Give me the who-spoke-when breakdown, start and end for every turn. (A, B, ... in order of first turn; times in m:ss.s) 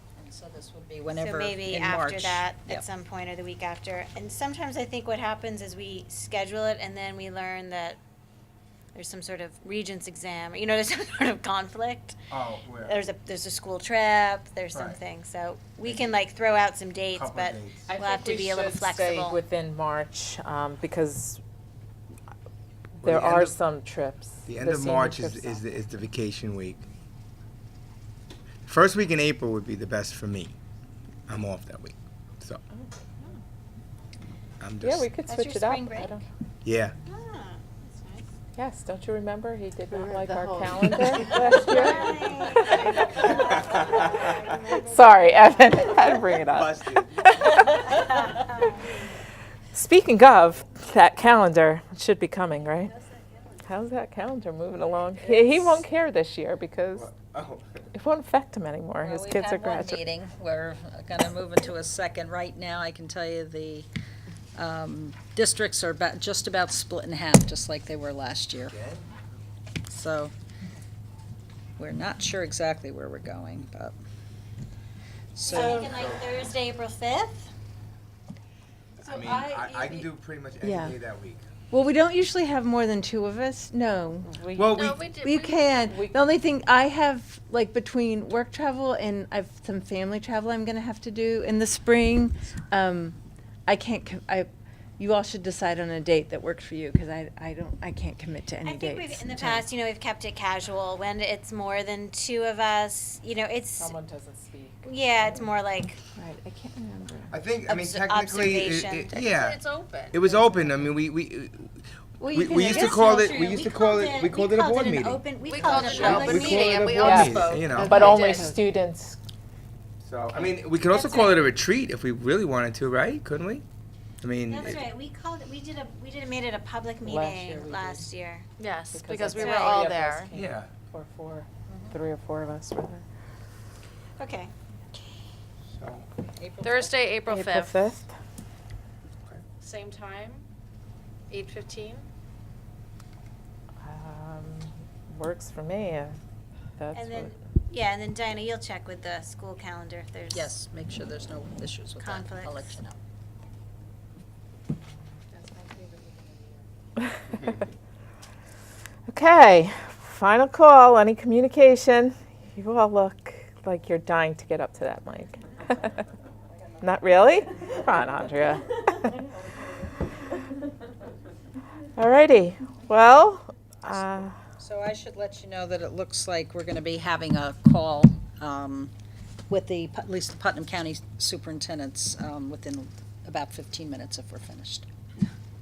0:00.2-0:02.8 A
0:01.1-0:08.0 B
0:08.9-0:12.2 B
0:12.3-0:13.0 C
0:12.8-0:19.4 B
0:14.7-0:15.0 C
0:15.8-0:16.2 C
0:17.1-0:17.9 C
0:17.9-0:21.4 D
0:23.0-0:23.6 C
0:23.0-0:25.6 D
0:24.4-0:26.8 C
0:28.6-0:30.5 C
0:31.3-0:32.6 C
0:34.6-0:35.1 C
0:34.8-0:36.2 D
0:35.3-0:36.2 B
0:36.6-0:36.9 C
0:37.0-0:38.2 B
0:38.6-0:43.3 D
0:40.2-0:40.5 E
0:40.7-0:41.1 F
0:41.3-0:46.2 B
0:44.8-0:48.6 D
0:46.5-0:47.4 C
0:47.8-0:48.7 B
0:49.7-0:52.9 D
0:53.6-0:57.1 D
0:56.9-0:57.8 C
0:57.9-1:00.0 D
0:59.0-1:03.9 A
1:04.5-1:08.8 A
1:08.6-1:09.2 C
1:09.9-1:10.3 A
1:11.8-1:14.0 A
1:15.3-1:15.9 A
1:15.5-1:16.4 C
1:15.5-1:17.5 B
1:19.0-1:20.1 B
1:19.0-1:21.4 C
1:20.6-1:21.0 E
1:21.7-1:24.4 E
1:24.2-1:25.0 D
1:24.5-1:25.1 C
1:24.7-1:25.9 F
1:25.2-1:39.7 E
1:25.9-1:26.2 D
1:38.6-1:43.9 B
1:43.8-1:44.8 D
1:44.8-1:46.0 B
1:46.1-1:47.4 E
1:47.3-1:58.0 C
1:47.6-1:49.3 B
1:49.2-1:50.2 F
1:50.2-1:50.9 D
1:52.2-1:53.0 E
1:52.5-1:57.2 B
1:55.4-1:58.6 F
1:56.5-1:59.2 D
1:57.7-1:58.5 E
2:00.0-2:03.6 C
2:00.9-2:01.5 B
2:04.2-2:04.8 C
2:04.5-2:08.5 B
2:07.0-2:08.1 D
2:08.6-2:10.3 F
2:08.9-2:13.0 D
2:09.3-2:09.9 B
2:10.3-2:10.7 C
2:14.2-2:14.5 B
2:15.7-2:16.0 C
2:16.4-2:16.9 A
2:16.6-2:17.9 F
2:17.2-2:18.1 D
2:19.6-2:20.4 F
2:21.3-2:22.1 F
2:23.8-2:26.2 D
2:26.8-2:27.3 D
2:26.9-2:30.6 B
2:30.3-2:33.0 A
2:32.0-2:32.8 B
2:35.3-2:36.6 F
2:39.1-2:46.0 D
2:46.8-2:49.2 D
2:52.0-2:54.4 D
2:54.6-2:58.9 A
2:59.5-3:04.9 A